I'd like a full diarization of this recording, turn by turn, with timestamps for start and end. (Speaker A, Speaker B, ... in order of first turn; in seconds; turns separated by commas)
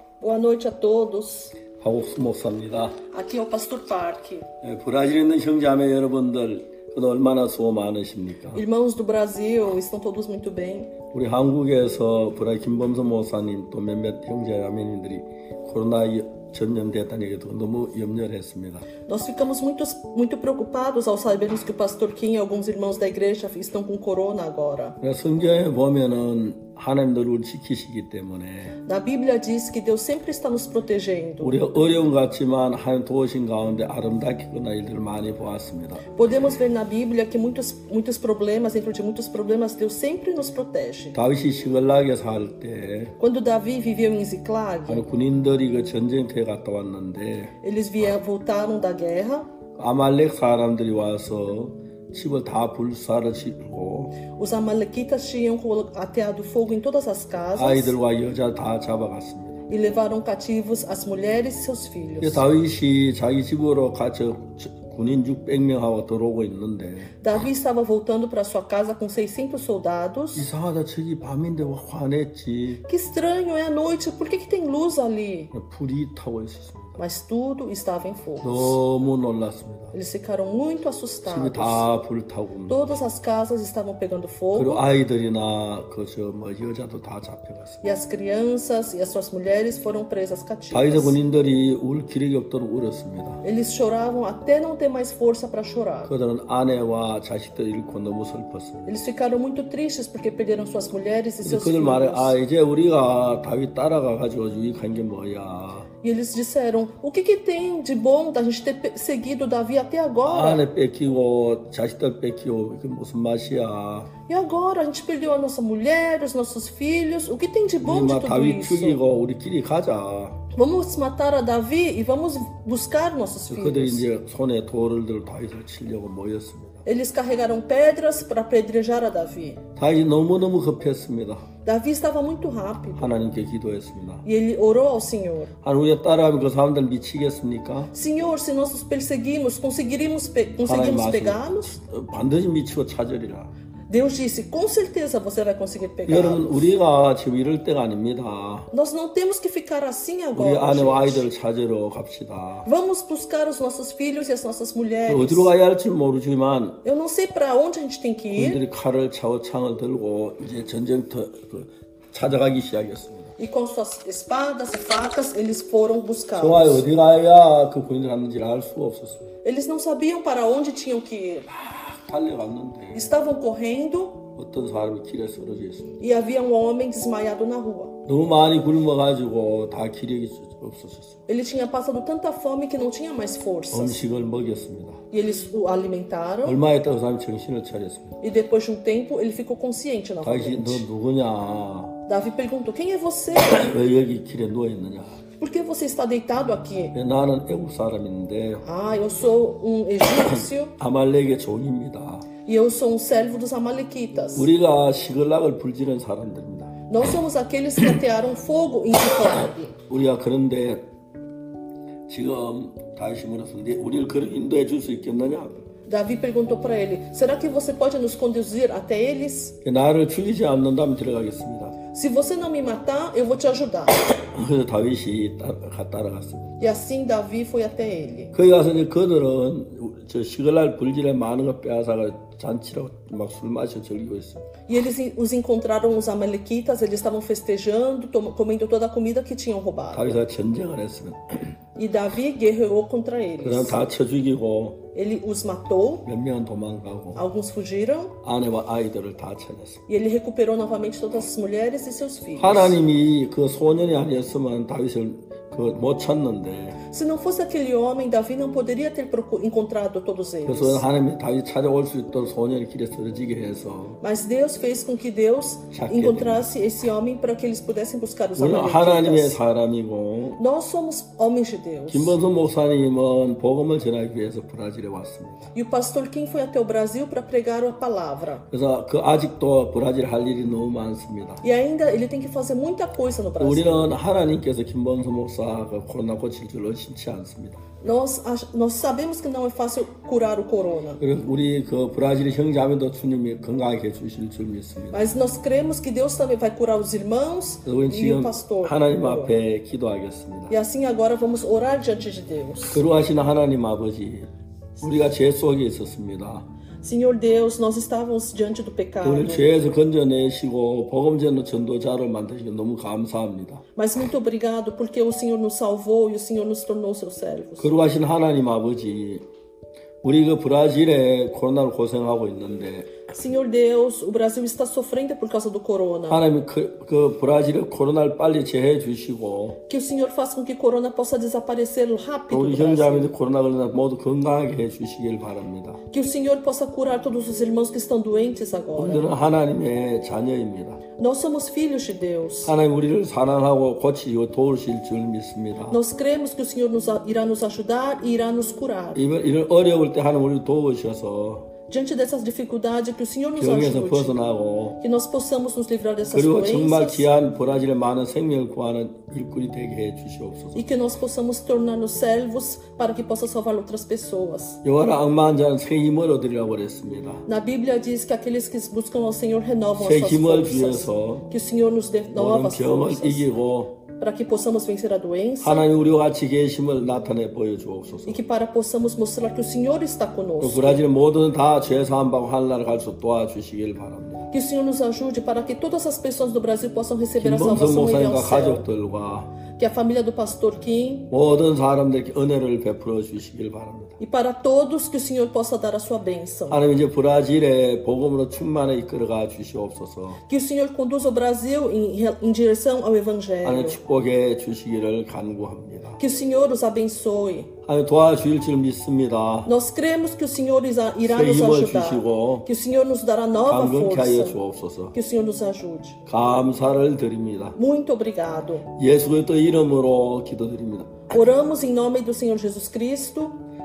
Speaker A: 0.2-1.6, Speaker B: 1.8-3.0, Speaker A: 3.1-4.5, Speaker B: 4.6-8.6, Speaker A: 8.5-10.9, Speaker B: 11.1-18.9, Speaker A: 19.1-25.0, Speaker B: 25.0-28.8, Speaker A: 28.9-31.7, Speaker B: 31.4-36.0, Speaker A: 36.1-41.2, Speaker B: 41.1-43.1, Speaker A: 43.2-45.1, Speaker B: 44.9-47.5, Speaker A: 47.6-49.5, Speaker B: 49.8-54.2, Speaker A: 54.3-58.0, Speaker B: 57.5-59.6, Speaker A: 59.7-62.5, Speaker B: 62.2-67.2, Speaker A: 67.2-70.5, Speaker B: 70.4-72.8, Speaker A: 72.9-75.5, Speaker B: 75.5-77.0, Speaker A: 77.0-78.8, Speaker B: 78.4-79.9, Speaker A: 79.9-81.9, Speaker B: 81.2-82.8, Speaker A: 82.7-84.8, Speaker B: 84.5-87.8, Speaker A: 87.8-91.2, Speaker B: 90.7-93.4, Speaker A: 93.4-96.1, Speaker B: 96.1-98.8, Speaker A: 98.8-102.4, Speaker B: 101.4-105.9, Speaker A: 106.0-110.6, Speaker B: 110.3-114.1, Speaker A: 114.3-119.0, Speaker B: 117.8-120.4, Speaker A: 120.5-124.0, Speaker B: 123.5-126.8, Speaker A: 126.8-129.6, Speaker B: 129.8-131.4, Speaker A: 131.7-133.1, Speaker B: 133.0-134.2, Speaker A: 134.2-135.5, Speaker B: 135.6-137.9, Speaker A: 137.9-141.7, Speaker B: 140.6-143.5, Speaker A: 143.9-146.6, Speaker B: 146.1-148.7, Speaker A: 148.7-151.3, Speaker B: 150.3-152.7, Speaker A: 152.7-155.5, Speaker B: 155.1-156.8, Speaker A: 156.8-158.6, Speaker B: 158.3-163.3, Speaker A: 163.4-166.8, Speaker B: 166.4-169.3, Speaker A: 169.4-171.5, Speaker B: 171.5-173.1, Speaker A: 172.9-174.2, Speaker B: 174.4-175.9, Speaker A: 176.0-177.9, Speaker B: 178.1-181.2, Speaker A: 181.3-184.0, Speaker B: 183.7-185.0, Speaker A: 185.1-186.6, Speaker B: 186.4-188.2, Speaker A: 188.2-190.8, Speaker B: 190.2-191.9, Speaker A: 192.1-193.7, Speaker B: 193.5-195.2, Speaker A: 195.4-196.9, Speaker B: 196.9-198.6, Speaker A: 198.6-200.7, Speaker B: 200.2-202.3, Speaker A: 202.5-204.5, Speaker B: 204.3-206.8, Speaker A: 206.9-209.7, Speaker B: 209.9-210.8, Speaker B: 212.1-215.7, Speaker A: 215.9-219.6, Speaker B: 219.6-221.8, Speaker A: 221.9-224.0, Speaker B: 224.2-226.6, Speaker A: 226.6-228.3, Speaker B: 228.3-234.5, Speaker A: 234.7-240.2, Speaker B: 239.9-241.5, Speaker A: 241.8-243.8, Speaker B: 243.4-244.8, Speaker A: 244.9-246.0, Speaker B: 246.1-247.2, Speaker A: 247.2-248.1, Speaker B: 248.2-249.8, Speaker A: 249.9-252.8, Speaker B: 252.4-256.8, Speaker A: 256.9-260.8, Speaker B: 260.5-264.0, Speaker A: 264.0-269.4, Speaker B: 265.7-266.4, Speaker B: 268.4-270.4, Speaker A: 270.4-272.2, Speaker B: 271.9-275.4, Speaker A: 275.5-278.4, Speaker B: 278.5-281.4, Speaker A: 281.4-283.9, Speaker B: 283.4-287.6, Speaker A: 287.8-291.0, Speaker B: 291.0-295.0, Speaker A: 294.9-299.3, Speaker B: 297.6-300.6, Speaker A: 300.5-302.8, Speaker B: 302.7-306.5, Speaker A: 306.8-309.5, Speaker B: 309.0-313.6, Speaker A: 313.8-317.7, Speaker B: 317.6-319.2, Speaker B: 320.0-322.9, Speaker A: 323.1-326.2, Speaker B: 326.1-329.6, Speaker A: 329.7-333.1, Speaker B: 332.3-335.8, Speaker A: 335.9-339.1, Speaker B: 338.8-340.8, Speaker A: 341.0-342.5, Speaker B: 342.4-345.8, Speaker A: 345.7-349.0, Speaker B: 348.9-351.4, Speaker A: 351.7-354.2, Speaker B: 353.4-354.8, Speaker A: 354.8-357.1, Speaker B: 356.1-360.6, Speaker A: 360.6-364.6, Speaker B: 364.6-367.2, Speaker A: 367.3-373.3, Speaker B: 369.8-371.3, Speaker B: 372.1-373.8, Speaker A: 374.0-375.6, Speaker B: 375.4-378.2, Speaker A: 378.1-380.8, Speaker B: 380.4-384.3, Speaker A: 384.3-388.6, Speaker B: 387.2-389.3, Speaker A: 389.6-391.1, Speaker B: 391.1-394.0, Speaker A: 394.0-396.6, Speaker B: 396.5-400.2, Speaker A: 400.3-403.8, Speaker B: 403.4-406.0, Speaker A: 406.0-407.5, Speaker B: 407.7-409.5, Speaker A: 409.5-414.4, Speaker B: 411.0-412.5, Speaker B: 413.4-414.9, Speaker A: 414.9-416.0, Speaker B: 416.1-417.6, Speaker A: 417.6-418.7, Speaker B: 418.8-421.1, Speaker A: 421.1-423.4